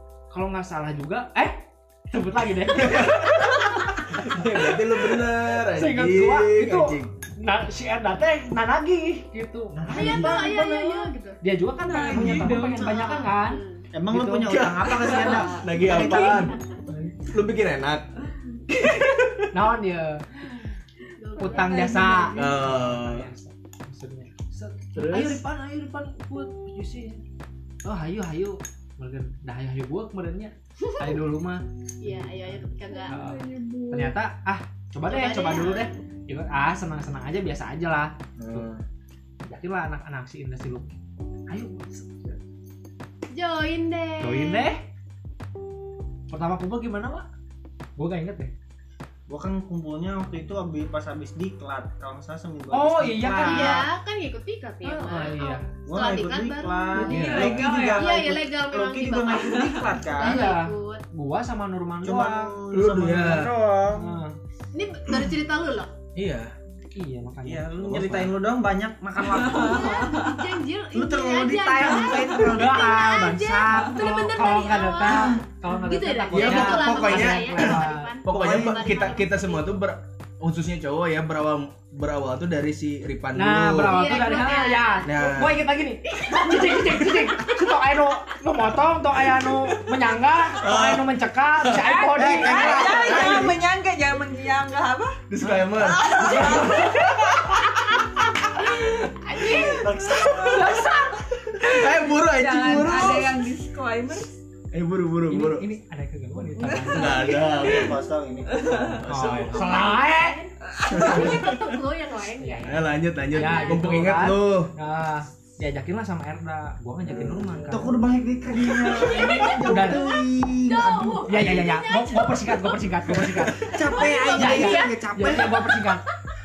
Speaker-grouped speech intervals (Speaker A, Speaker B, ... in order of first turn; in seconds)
Speaker A: 0.3-14.6, 16.9-17.3, 19.5-20.6, 21.4-27.2, 27.8-38.7, 39.4-41.0, 41.5-42.4, 44.2-44.8, 46.3-47.3, 48.0-48.5, 52.7-53.9, 54.8-55.7, 60.2-62.6, 63.9-64.3, 67.0-68.2, 72.3-73.1, 73.7-78.2, 83.4-93.4, 96.1-99.6, 100.5-101.2, 105.3-107.3, 109.1-110.4, 112.4-118.0, 119.3-120.1, 121.3-126.0
Speaker B: 2.8-7.1, 14.4-16.6, 17.2-18.1, 18.9-19.4, 22.3-23.3, 24.9-25.4, 38.4-38.8, 57.1-57.9, 62.7-63.5, 66.2-66.5, 67.8-68.3, 76.3-84.2, 85.0-85.6, 90.6-91.0, 95.3-96.5, 101.6-103.3, 104.7-105.6, 106.9-108.0, 108.8-109.8, 110.9-111.8, 112.7-114.7, 117.1-117.6, 121.4-121.6
Speaker C: 9.7-10.5, 12.1-12.7, 13.9-16.5, 49.3-53.9, 55.9-60.5, 62.0-64.1, 67.5-70.1, 70.9-74.0, 78.3-78.8, 92.2-93.6, 99.4-100.8, 107.3-109.0, 117.7-121.4, 123.6-125.7
Speaker D: 9.9-11.4, 12.7-13.8, 15.3-16.9, 21.0-22.2, 32.0-33.2, 35.0-35.9, 43.3-44.7, 53.4-57.2, 57.9-61.0, 64.7-65.9, 69.4-79.7, 83.8-85.1, 86.2-86.9, 99.3-99.8, 109.5-114.0, 119.1-123.0, 123.7-125.8
Speaker E: 11.9-12.9, 21.4-22.7, 32.8-34.2, 56.9-58.1, 59.3-59.9, 69.3-70.4, 91.7-95.2, 95.8-97.8, 99.5-104.3, 106.5-107.9, 108.5-108.9, 110.7-111.2